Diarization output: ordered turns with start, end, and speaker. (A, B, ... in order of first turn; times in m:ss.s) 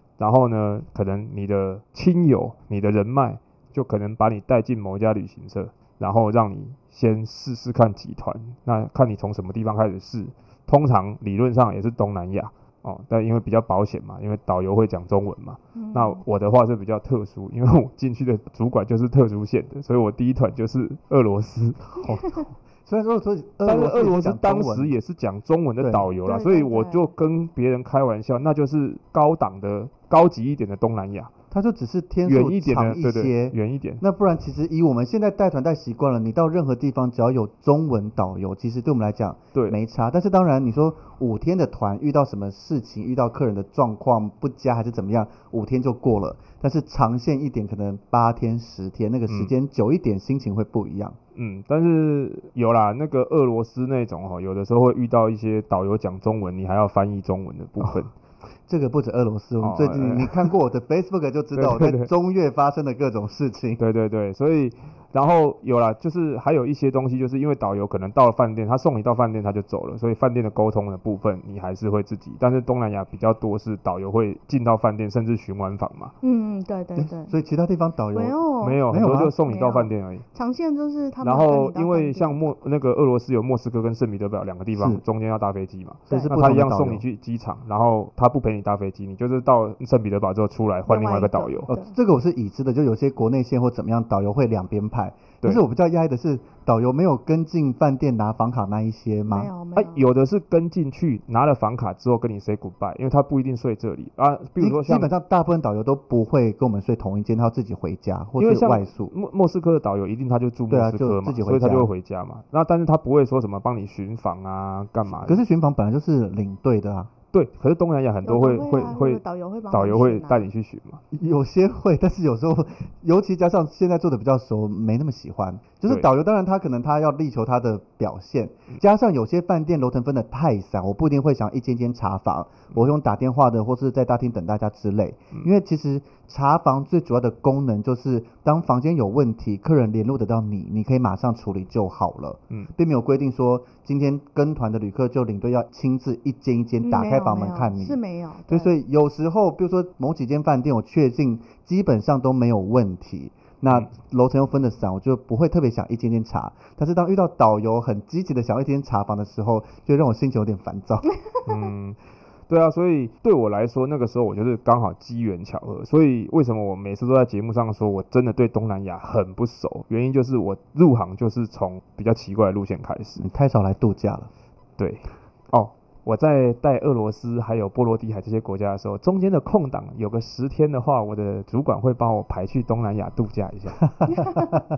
0:00.2-0:21.9 A
0:15.8-0:16.2 B
0:22.0-0:24.9 C
0:23.6-0:31.3 A
0:25.8-0:26.1 C
0:26.3-0:27.1 B
0:31.5-0:51.2 C
0:32.2-0:34.0 A
0:51.4-0:58.1 A
0:58.7-1:03.8 C
0:59.6-1:00.5 A
1:01.5-1:02.1 A
1:03.8-1:16.1 A
1:16.2-1:17.3 B
1:17.0-1:18.4 C
1:18.1-1:18.8 B
1:18.6-1:20.2 A
1:18.9-1:19.3 C
1:19.4-1:22.5 B
1:21.2-1:31.7 A
1:24.8-1:25.0 C
1:26.1-1:27.0 C
1:30.9-1:31.9 B
1:31.7-1:39.5 C
1:39.3-1:40.1 B
1:39.8-1:45.1 A
1:44.6-1:49.1 C
1:48.4-1:55.4 A
1:50.7-1:51.9 C
1:55.2-1:57.1 C
1:57.3-2:01.0 A
1:58.2-2:00.5 B
2:01.1-2:41.1 C
2:26.8-2:28.7 B
2:41.4-2:53.2 A
2:53.2-2:54.3 C
2:54.8-3:03.8 A
3:03.9-3:04.6 C
3:04.1-3:04.6 B